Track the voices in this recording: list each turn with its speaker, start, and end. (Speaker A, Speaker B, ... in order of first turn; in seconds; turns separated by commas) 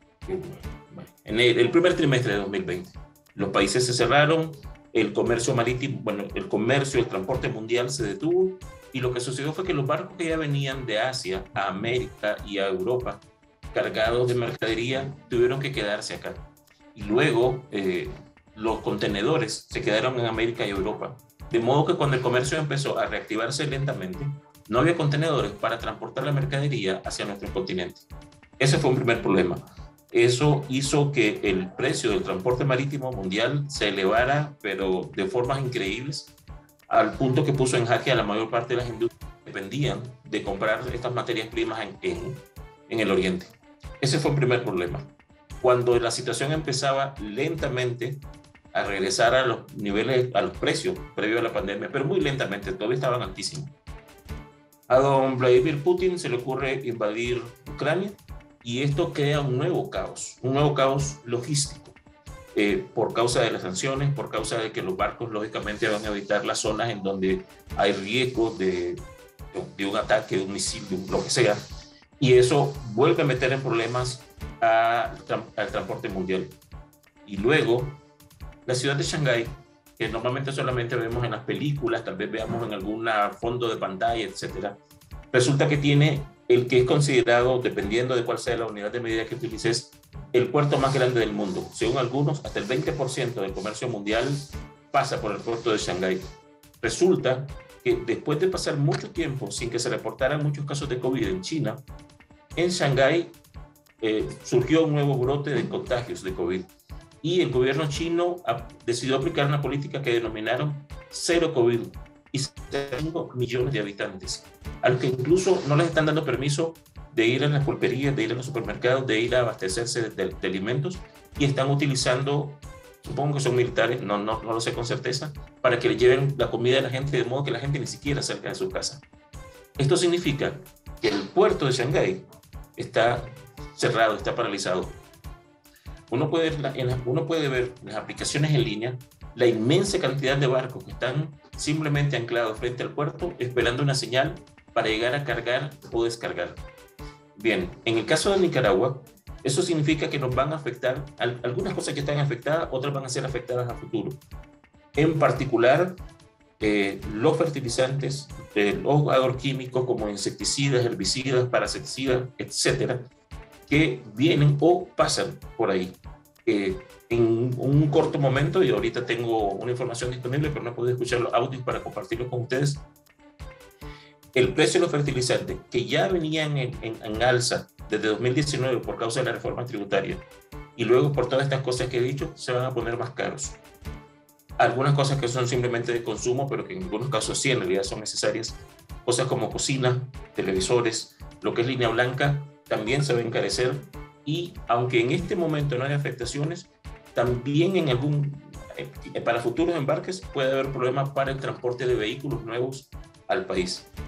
Speaker A: 0.2-28.0, Speaker A: 28.6-36.4, Speaker A: 36.9-43.5, Speaker A: 44.0-53.7, Speaker A: 54.9-62.0, Speaker A: 62.5-71.6, Speaker A: 72.2-76.6, Speaker A: 77.2-78.0, Speaker A: 78.7-84.8, Speaker A: 85.3-96.2, Speaker A: 96.8-101.8, Speaker A: 102.5-103.3, Speaker A: 104.0-106.7, Speaker A: 107.2-129.0, Speaker A: 129.8-132.2, Speaker A: 132.8-135.0, Speaker A: 136.1-146.6, Speaker A: 147.3-154.2, Speaker A: 154.9-156.0, Speaker A: 156.6-163.1, Speaker A: 163.7-172.9, Speaker A: 174.3-183.6, Speaker A: 184.6-203.9